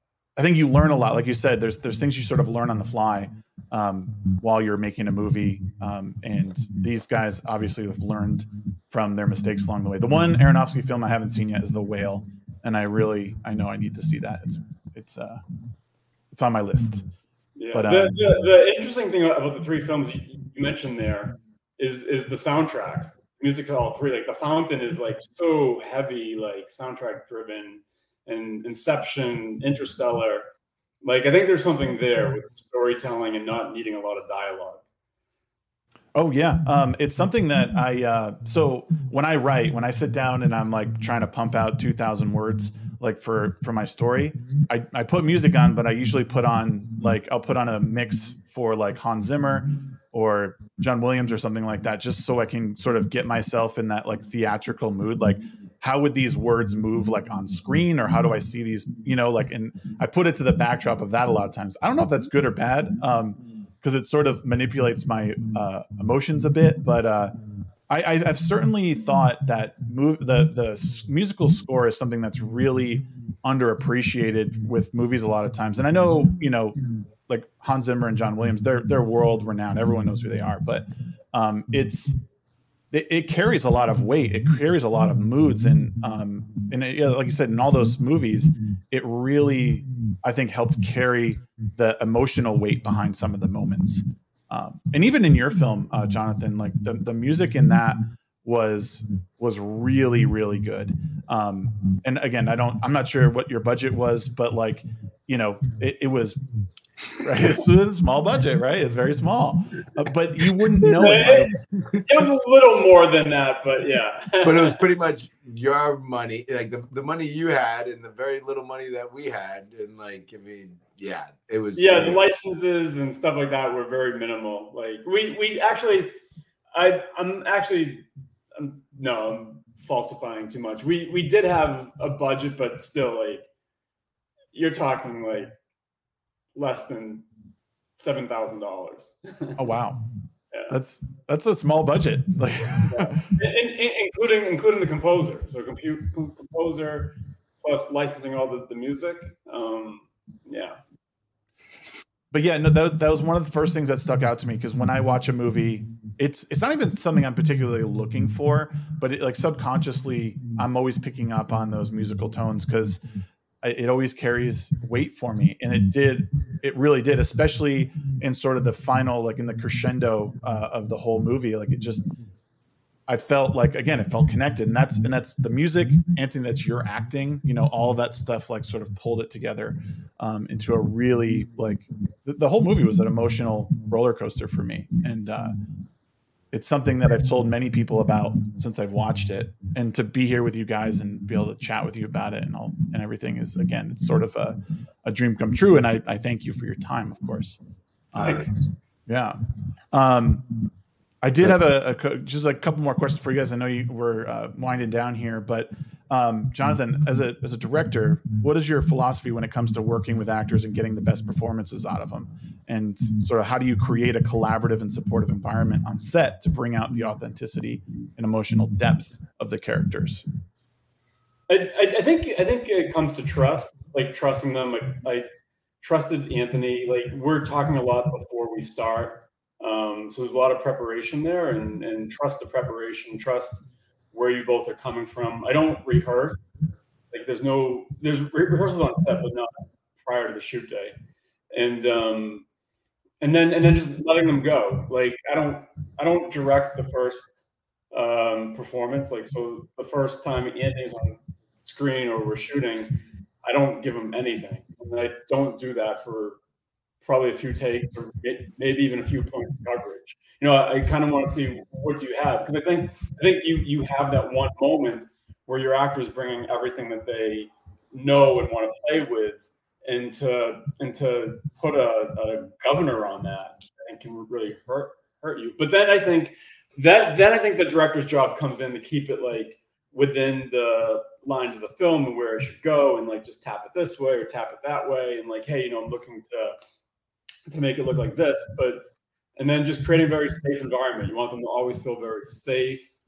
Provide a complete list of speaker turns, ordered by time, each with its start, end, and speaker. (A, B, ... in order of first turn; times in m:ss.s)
0:00.4-0:15.4 A
0:16.3-0:17.0 A
0:17.6-0:30.4 B
0:17.7-0:18.1 A
0:31.0-0:34.8 B
0:36.1-1:07.3 A
1:07.9-1:22.2 A
1:22.9-1:46.4 A
1:47.2-1:51.6 A
1:50.9-1:51.5 B
1:52.1-1:54.8 B
1:54.4-2:02.2 C
2:01.8-2:06.1 B
2:06.7-2:13.4 B
2:14.5-2:15.5 B
2:16.5-2:17.2 B
2:18.0-2:19.6 B
2:19.6-2:20.0 A
2:20.7-2:23.2 A
2:22.8-2:30.8 B
2:32.3-2:43.0 A
2:43.6-2:52.0 A
2:53.1-3:05.5 A
3:06.5-3:17.6 A
3:18.1-3:18.5 A
3:18.2-3:18.6 B
3:19.1-3:19.4 A
3:19.9-3:20.5 A
3:21.2-3:40.2 A
3:41.5-3:45.3 B
3:45.8-3:56.4 B
3:57.1-4:00.9 B
4:01.5-4:02.4 B
4:03.2-4:16.4 B
4:17.0-4:46.6 B
4:47.5-4:48.8 B
4:49.4-4:52.9 B